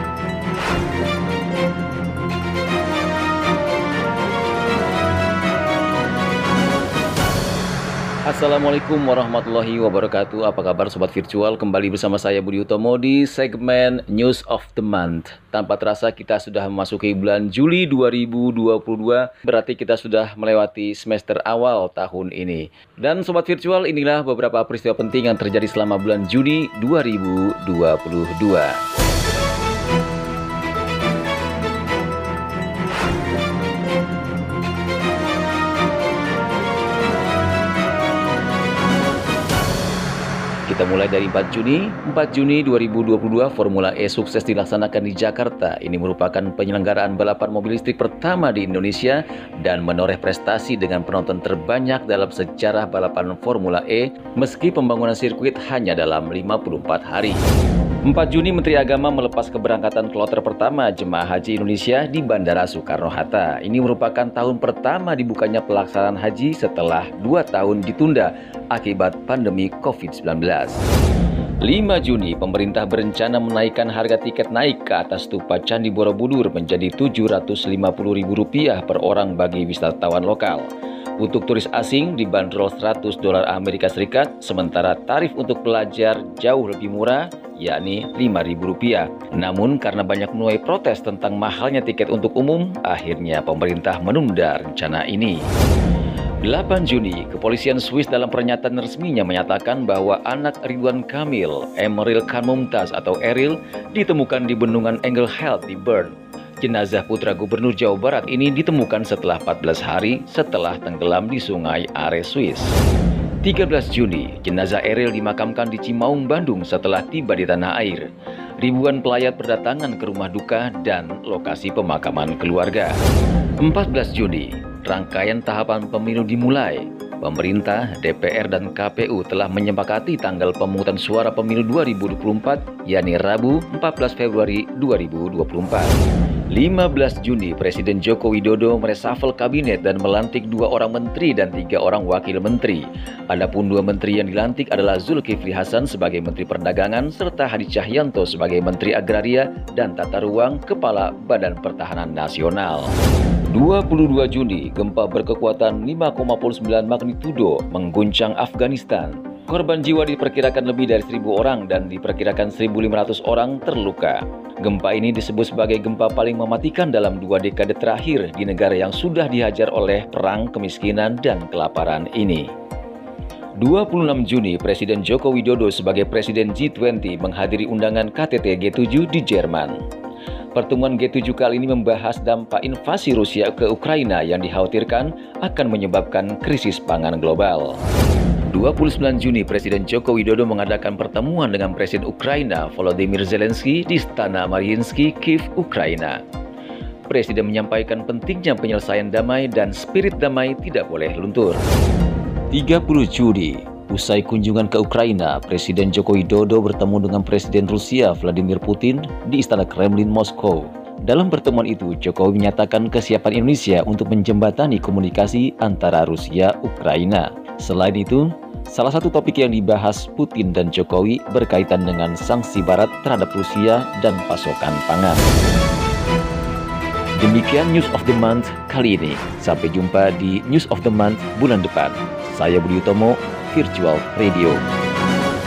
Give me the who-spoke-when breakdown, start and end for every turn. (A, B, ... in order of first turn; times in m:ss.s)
0:08.2-0:28.8 A
0:40.7-0:57.4 A
0:58.0-1:10.8 A
1:11.6-1:35.5 A
1:36.4-1:52.8 A
1:53.4-1:58.1 A
1:58.6-2:03.0 A
2:03.6-2:16.0 A
2:16.5-2:32.9 A
2:33.5-2:52.5 A
2:53.6-2:59.8 A
3:00.5-3:07.8 A
3:08.5-3:16.2 A
3:17.1-3:21.6 A
3:22.5-3:45.3 A
3:47.2-3:54.6 A